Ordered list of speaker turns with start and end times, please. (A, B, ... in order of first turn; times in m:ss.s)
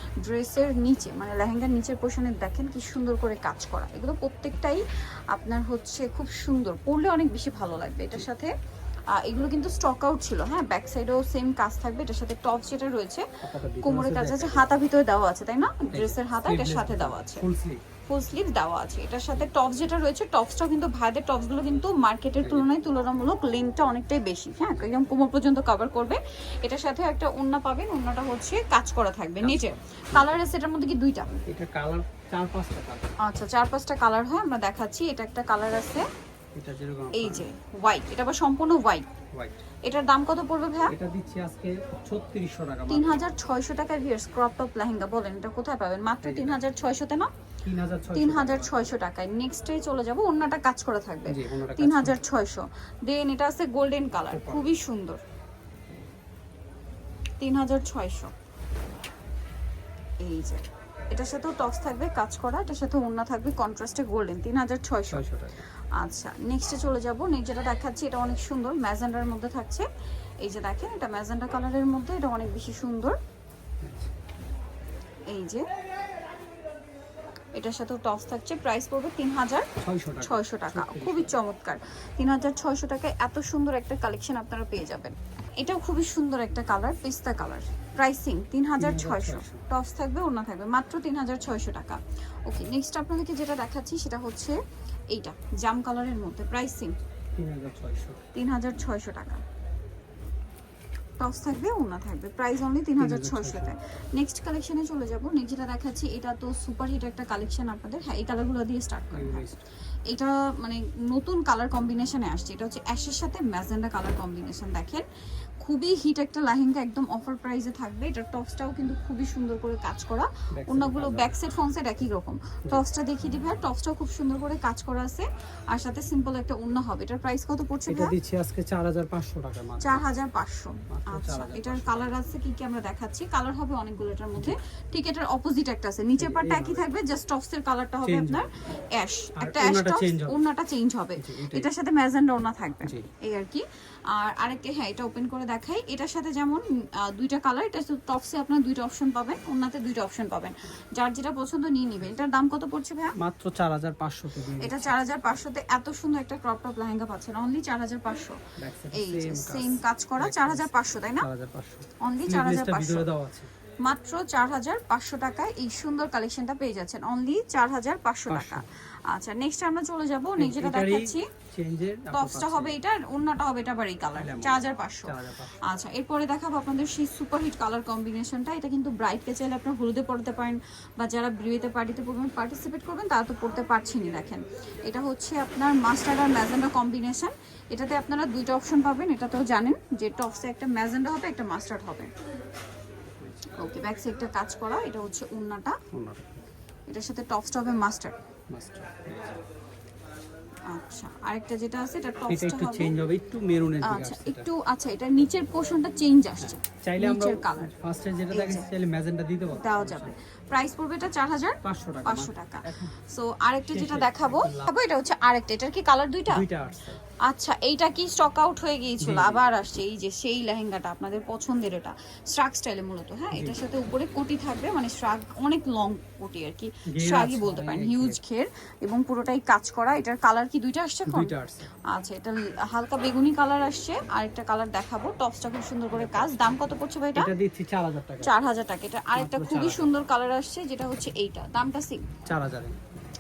0:00.2-0:08.5 A
0:09.1-0:17.5 A
0:13.4-0:14.7 B
0:15.9-0:17.8 B
0:18.1-0:31.3 A
0:22.4-0:22.7 B
0:29.4-0:30.4 B
0:31.5-0:33.1 B
0:33.2-0:36.1 A
0:36.6-0:37.5 B
0:37.1-0:39.1 A
0:39.3-0:39.6 B
0:39.8-0:41.0 A
0:40.9-0:43.3 B
0:42.9-0:47.3 A
0:46.2-0:46.6 B
0:47.6-0:48.9 B
0:48.1-0:55.2 A
0:51.3-0:52.2 B
0:54.3-0:54.7 B
0:57.4-0:58.3 A
1:00.2-1:05.3 A
1:05.1-1:05.7 B
1:06.0-1:09.9 A
1:10.4-1:13.2 A
1:13.8-1:14.1 B
1:15.3-1:15.7 A
1:17.6-1:34.6 A
1:19.8-1:21.4 B
1:28.8-1:29.6 B
1:35.1-1:37.0 A
1:37.4-1:38.2 B
1:38.3-1:39.4 A
1:41.2-1:49.5 A
1:43.0-1:43.7 B
1:49.1-1:49.6 B
1:50.1-1:55.0 A
1:55.6-2:08.2 A
2:00.5-2:01.4 B
2:07.9-2:10.1 B
2:09.8-2:33.2 A
2:10.9-2:12.3 B
2:16.2-2:16.9 B
2:18.0-2:18.5 B
2:19.4-2:20.4 B
2:21.2-2:21.7 B
2:33.2-2:35.0 B
2:34.6-2:38.4 A
2:38.6-2:43.5 B
2:38.9-2:41.3 A
2:42.0-2:43.1 A
2:43.8-2:51.3 A
2:48.3-2:48.6 B
2:50.4-2:52.8 B
2:52.1-3:12.1 A
2:54.1-2:55.6 B
3:13.5-3:15.8 A
3:15.9-3:16.4 B
3:16.9-3:18.2 A
3:18.5-3:19.4 B
3:20.7-3:23.0 A
3:22.3-3:24.5 B
3:23.8-3:27.7 A
3:26.4-3:30.2 B
3:28.3-3:28.7 A
3:29.5-3:36.5 A
3:31.6-3:33.0 B
3:33.6-3:34.7 B
3:36.3-3:37.0 B
3:37.2-3:57.3 A
3:39.0-3:39.5 B
3:43.3-3:43.6 B
3:46.9-3:48.2 B
3:51.1-3:51.7 B
3:55.9-3:56.5 B
3:57.2-3:58.4 B
3:58.2-4:02.2 A
3:59.2-3:59.9 B
4:02.3-4:02.8 B